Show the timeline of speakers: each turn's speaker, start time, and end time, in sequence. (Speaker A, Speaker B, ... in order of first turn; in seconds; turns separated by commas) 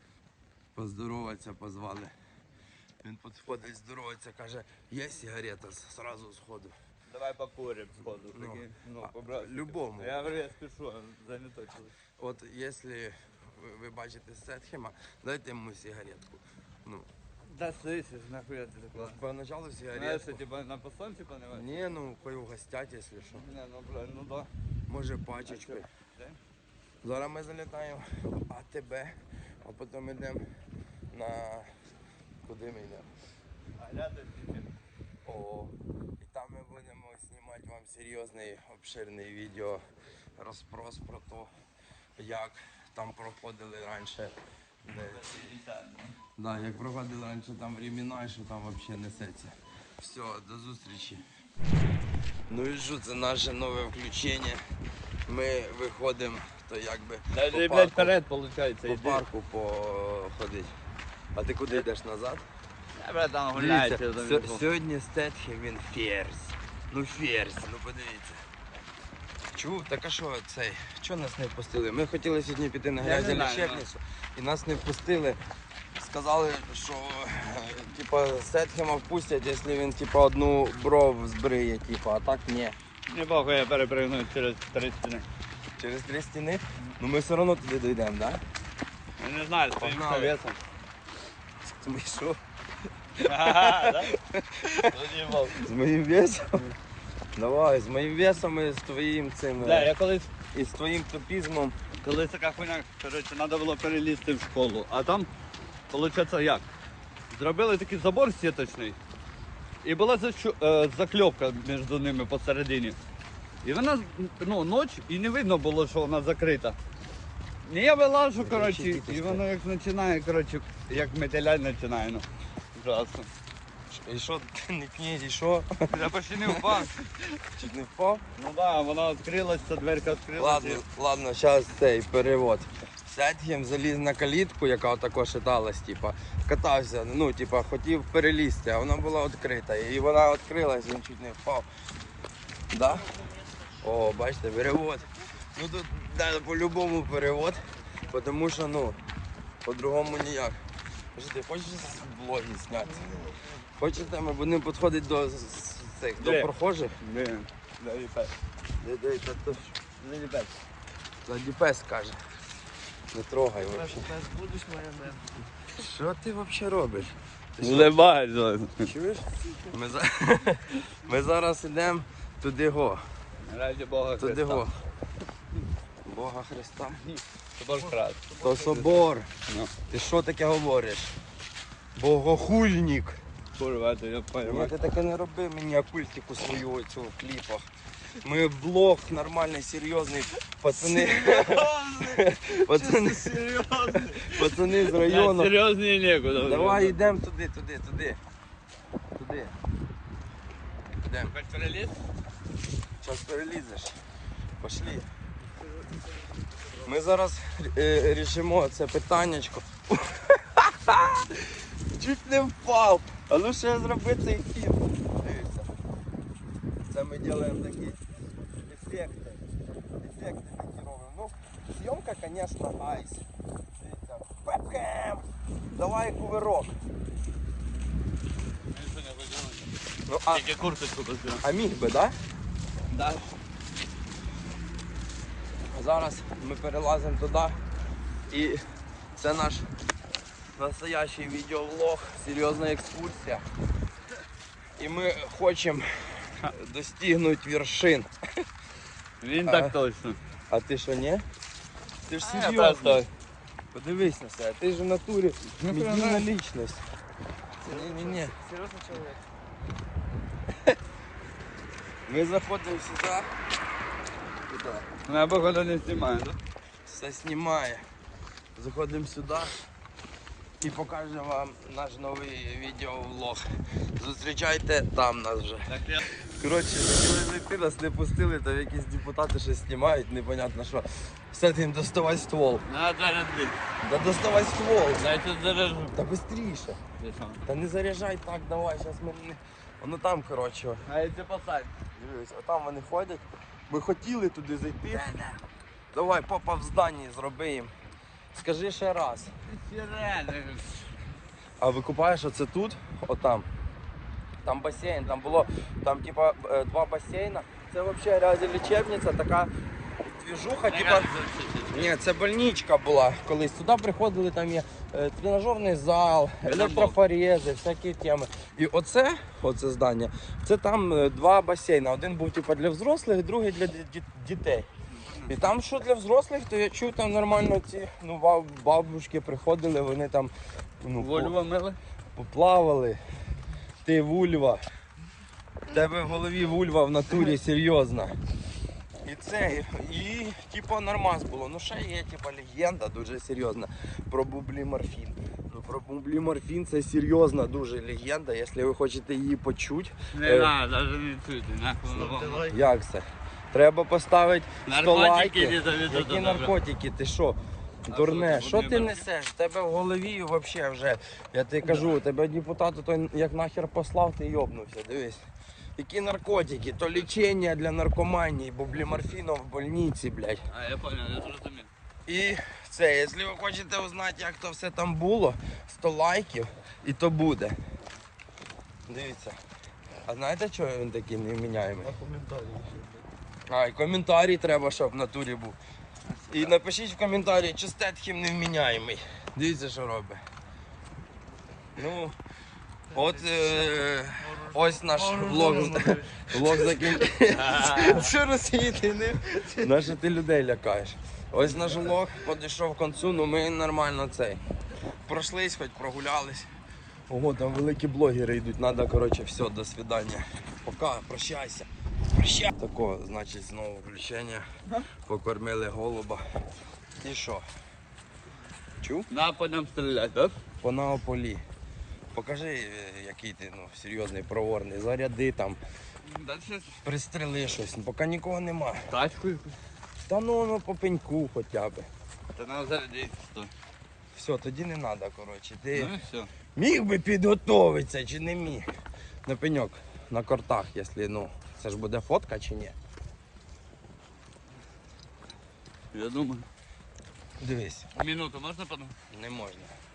Speaker A: 0.8-2.1, Speaker A: 3.0-6.7, Speaker B: 7.1-11.9, Speaker A: 8.3-10.3, Speaker A: 12.2-17.1, Speaker B: 17.5-19.2, Speaker A: 19.0-20.4, Speaker B: 19.9-21.7, Speaker A: 21.5-23.4, Speaker B: 23.3-24.5, Speaker A: 24.9-25.9, Speaker B: 25.5-26.4, Speaker A: 27.0-30.4, Speaker A: 31.1-31.7, Speaker A: 32.4-33.1, Speaker B: 33.8-34.7, Speaker A: 35.2-39.8, Speaker A: 40.4-41.5, Speaker A: 42.2-44.3, Speaker A: 44.9-45.5, Speaker B: 45.1-46.1, Speaker A: 46.4-51.2, Speaker A: 52.5-54.6, Speaker A: 55.3-58.1, Speaker B: 57.3-59.2, Speaker A: 58.9-60.7, Speaker A: 61.4-62.4, Speaker B: 63.0-64.6, Speaker A: 63.5-68.4, Speaker A: 69.5-75.4, Speaker B: 73.0-73.8, Speaker A: 76.0-82.8, Speaker B: 83.1-85.3, Speaker A: 85.8-88.4, Speaker B: 89.2-90.6, Speaker A: 89.8-90.4, Speaker A: 91.7-92.4, Speaker A: 93.2-94.9, Speaker B: 93.2-94.2, Speaker B: 94.8-95.7, Speaker A: 95.5-96.7, Speaker A: 97.4-100.0, Speaker B: 99.6-100.3, Speaker A: 100.5-101.8, Speaker B: 102.0-105.3, Speaker B: 105.9-106.7, Speaker B: 107.3-109.0, Speaker B: 109.8-113.0, Speaker B: 113.6-116.8, Speaker B: 117.6-123.3, Speaker A: 118.4-119.5, Speaker A: 123.9-125.9, Speaker B: 125.9-127.3, Speaker A: 126.4-126.9, Speaker A: 127.5-128.2, Speaker B: 128.4-130.8, Speaker A: 130.4-141.7, Speaker A: 142.7-143.2, Speaker A: 143.8-149.0, Speaker A: 149.6-150.6, Speaker A: 151.2-157.0, Speaker B: 156.2-158.3, Speaker A: 158.8-159.8, Speaker B: 160.0-160.5, Speaker A: 161.2-162.2, Speaker A: 163.1-164.2, Speaker C: 163.8-165.3, Speaker A: 165.7-167.9, Speaker B: 167.6-168.9, Speaker A: 168.8-173.0, Speaker B: 173.4-174.6, Speaker A: 174.2-174.8, Speaker A: 176.1-177.0, Speaker B: 177.0-179.7, Speaker A: 178.4-179.3, Speaker A: 179.9-181.1, Speaker A: 182.0-183.2, Speaker B: 183.6-184.8, Speaker A: 184.4-187.7, Speaker A: 188.2-195.5, Speaker B: 190.8-197.1, Speaker A: 196.4-198.2, Speaker A: 199.2-199.6, Speaker A: 201.0-201.3, Speaker B: 201.3-202.0, Speaker A: 203.0-203.9, Speaker A: 204.6-205.1, Speaker A: 206.8-215.7, Speaker A: 216.9-218.0, Speaker A: 218.7-219.4, Speaker A: 220.0-226.7, Speaker B: 228.7-229.8, Speaker A: 230.1-230.4, Speaker B: 230.3-231.4, Speaker A: 231.4-232.2, Speaker B: 232.9-233.3, Speaker A: 235.7-237.6, Speaker A: 238.3-238.6, Speaker A: 239.2-239.7, Speaker A: 240.6-243.4, Speaker A: 244.8-248.1, Speaker B: 249.2-250.2, Speaker A: 249.5-249.8, Speaker A: 250.5-251.2, Speaker A: 252.1-253.1, Speaker B: 252.2-253.1, Speaker A: 253.7-256.8, Speaker B: 255.6-256.3, Speaker C: 257.6-259.2, Speaker A: 257.6-258.4, Speaker A: 262.1-263.3, Speaker A: 264.5-264.9, Speaker B: 265.0-266.4, Speaker A: 266.9-267.8, Speaker A: 268.6-269.6, Speaker A: 270.6-273.4, Speaker A: 274.0-282.6, Speaker B: 275.7-276.1, Speaker B: 282.7-283.6, Speaker A: 283.8-285.0, Speaker B: 285.0-286.0, Speaker A: 285.9-286.8, Speaker B: 287.0-287.4, Speaker A: 287.5-290.9, Speaker B: 290.9-291.7, Speaker A: 292.0-295.4, Speaker B: 294.9-295.4, Speaker A: 295.9-297.7, Speaker A: 298.3-299.3, Speaker B: 299.5-300.8, Speaker A: 301.6-303.5, Speaker A: 304.4-309.5, Speaker A: 310.0-311.1, Speaker B: 310.7-311.9, Speaker A: 311.7-324.7, Speaker B: 316.4-317.0, Speaker B: 325.0-325.3, Speaker A: 325.2-331.4, Speaker B: 331.0-331.8, Speaker A: 332.2-333.0, Speaker A: 333.9-334.6, Speaker A: 335.7-338.2, Speaker A: 339.1-350.5, Speaker B: 350.1-352.6, Speaker C: 352.0-352.6, Speaker A: 352.4-365.2, Speaker B: 354.7-356.5, Speaker B: 357.9-359.1, Speaker B: 361.6-362.0, Speaker A: 365.8-370.4, Speaker B: 370.5-371.7, Speaker A: 372.1-377.6, Speaker A: 378.9-379.4, Speaker A: 380.1-382.0, Speaker C: 381.9-383.0, Speaker A: 383.5-385.6, Speaker B: 386.2-386.6, Speaker A: 386.3-390.2, Speaker A: 391.8-392.2, Speaker A: 392.9-398.2, Speaker C: 394.3-396.2, Speaker B: 397.3-398.2, Speaker C: 398.0-399.7, Speaker A: 399.6-404.4, Speaker A: 405.1-406.5, Speaker A: 407.1-414.4, Speaker A: 415.1-416.2, Speaker A: 417.0-417.4, Speaker A: 418.8-419.1, Speaker B: 419.1-420.4, Speaker A: 420.6-421.4, Speaker A: 422.1-425.6, Speaker B: 426.1-426.8, Speaker A: 426.8-428.9, Speaker B: 428.9-429.6, Speaker A: 430.1-431.9, Speaker B: 432.4-433.5, Speaker A: 434.1-435.9, Speaker B: 435.8-436.3, Speaker A: 436.6-438.7, Speaker A: 439.3-442.8, Speaker B: 445.9-446.5, Speaker A: 447.4-447.9, Speaker B: 447.9-448.9, Speaker A: 449.1-449.7